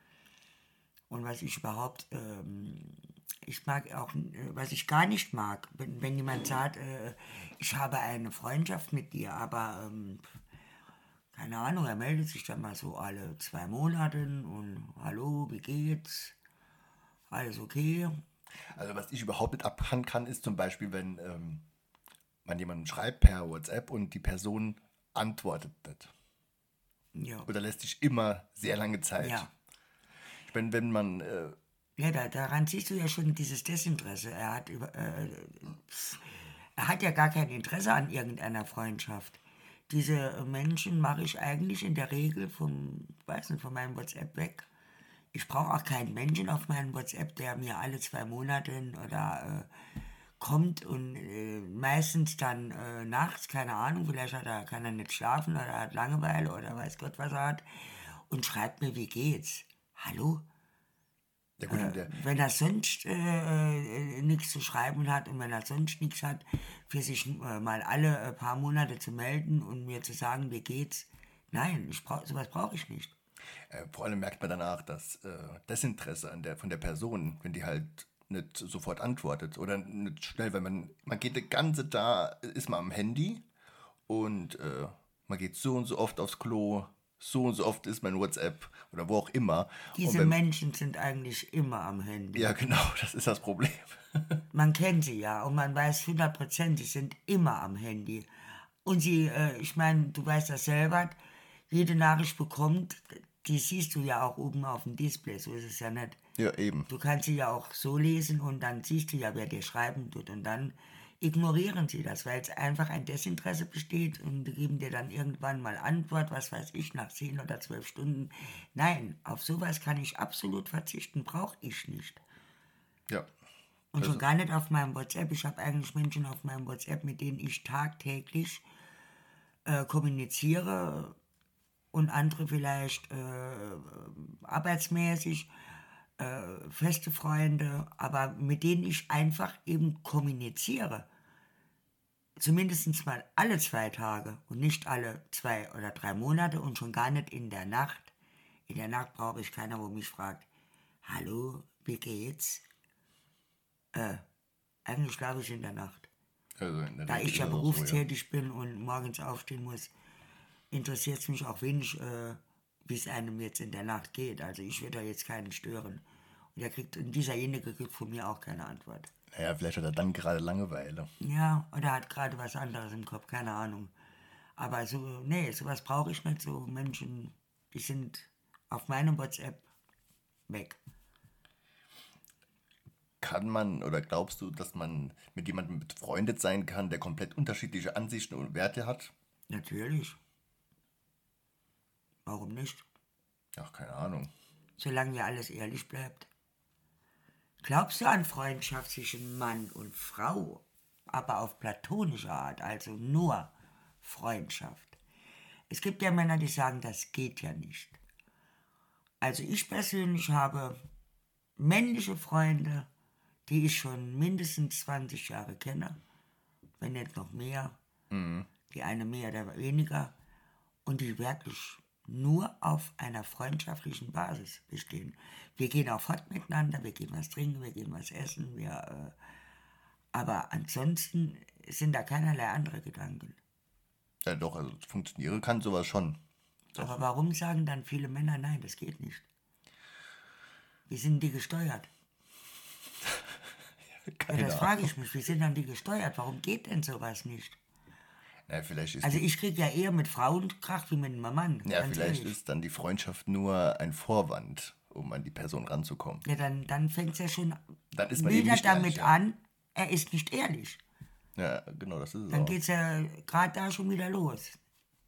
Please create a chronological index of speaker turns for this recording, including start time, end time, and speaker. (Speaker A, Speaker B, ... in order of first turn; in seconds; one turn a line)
Speaker A: 1.1-10.3
Speaker A: 11.3-16.4
Speaker A: 17.3-18.2
Speaker B: 18.7-21.6
Speaker B: 22.4-26.1
Speaker A: 27.1-27.5
Speaker B: 27.5-29.5
Speaker A: 29.2-29.5
Speaker B: 30.4-31.6
Speaker A: 32.0-44.6
Speaker A: 45.3-60.4
Speaker B: 61.6-62.2
Speaker A: 61.7-73.1
Speaker B: 73.7-83.4
Speaker B: 84.1-90.4
Speaker A: 89.9-92.5
Speaker B: 92.3-94.4
Speaker A: 94.5-101.2
Speaker A: 101.7-106.2
Speaker B: 106.4-106.9
Speaker A: 106.9-122.2
Speaker A: 123.9-128.6
Speaker A: 129.7-131.2
Speaker A: 131.9-135.5
Speaker A: 136.2-141.1
Speaker A: 142.4-148.1
Speaker A: 148.7-150.5
Speaker A: 151.0-152.6
Speaker A: 153.9-154.2
Speaker A: 154.8-156.1
Speaker B: 156.6-158.0
Speaker A: 157.1-159.9
Speaker A: 160.7-166.0
Speaker A: 166.5-169.1
Speaker B: 169.3-171.1
Speaker A: 171.2-173.9
Speaker A: 174.6-179.6
Speaker A: 180.5-180.8
Speaker B: 183.2-189.1
Speaker A: 189.5-190.2
Speaker A: 192.2-192.8
Speaker B: 193.6-194.3
Speaker A: 194.8-196.3
Speaker A: 197.6-205.0
Speaker A: 205.7-208.0
Speaker A: 209.2-210.8
Speaker A: 211.6-212.9
Speaker A: 213.5-216.0
Speaker A: 216.8-217.8
Speaker B: 218.1-218.5
Speaker A: 218.7-220.1
Speaker A: 220.8-229.2
Speaker A: 230.1-233.4
Speaker B: 234.2-236.2
Speaker B: 236.7-237.0
Speaker A: 236.8-239.2
Speaker A: 240.9-241.9
Speaker B: 244.0-244.9
Speaker A: 244.3-247.6
Speaker B: 248.5-249.2
Speaker A: 249.0-252.3
Speaker B: 251.6-256.2
Speaker A: 256.2-257.6
Speaker B: 257.9-259.1
Speaker A: 258.1-260.8
Speaker B: 261.4-262.6
Speaker A: 262.3-264.6